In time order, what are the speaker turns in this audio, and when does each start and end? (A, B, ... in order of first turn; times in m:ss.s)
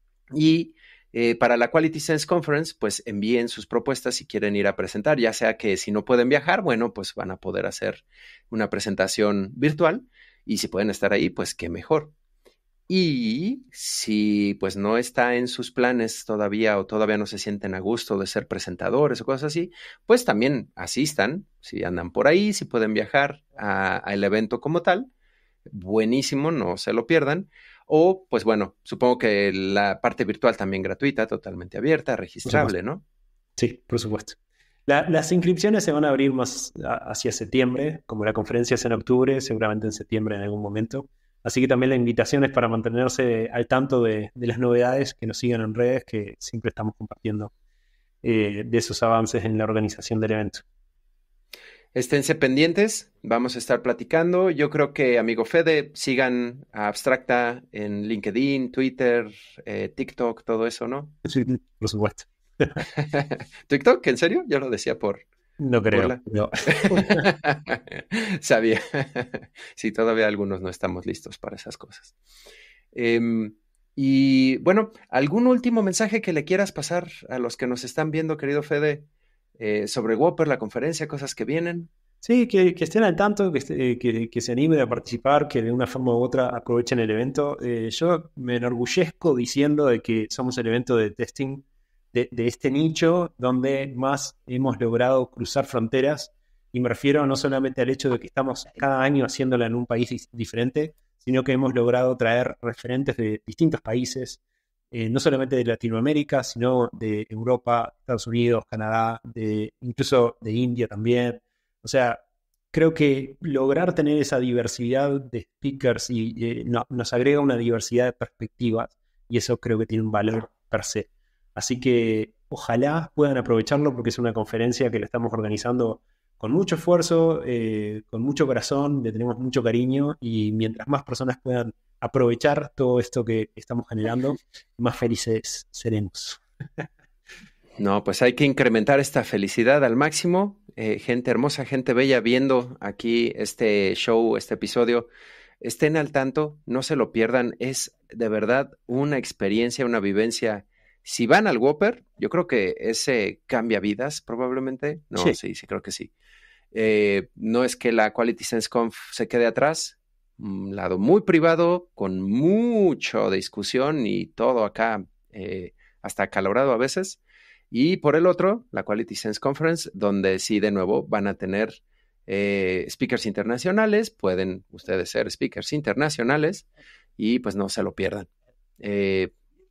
0:00.3-0:12.1 A
0:12.9-0:25.1 A
0:25.7-0:33.0 A
0:32.4-0:32.7 B
0:33.6-0:47.5 B
0:48.2-0:50.6 B
0:51.9-1:01.1 A
1:01.3-1:02.8 B
1:02.9-1:05.3 A
1:05.6-1:07.3 B
1:05.9-1:12.1 A
1:12.9-1:19.1 A
1:19.6-1:21.9 A
1:22.2-1:44.4 B
1:44.9-1:52.2 B
1:52.7-2:16.4 B
2:17.8-2:25.1 A
2:25.6-2:36.1 A
2:36.7-2:47.2 A
2:47.7-2:56.7 A
2:57.2-2:58.3 A
2:58.8-2:59.3 A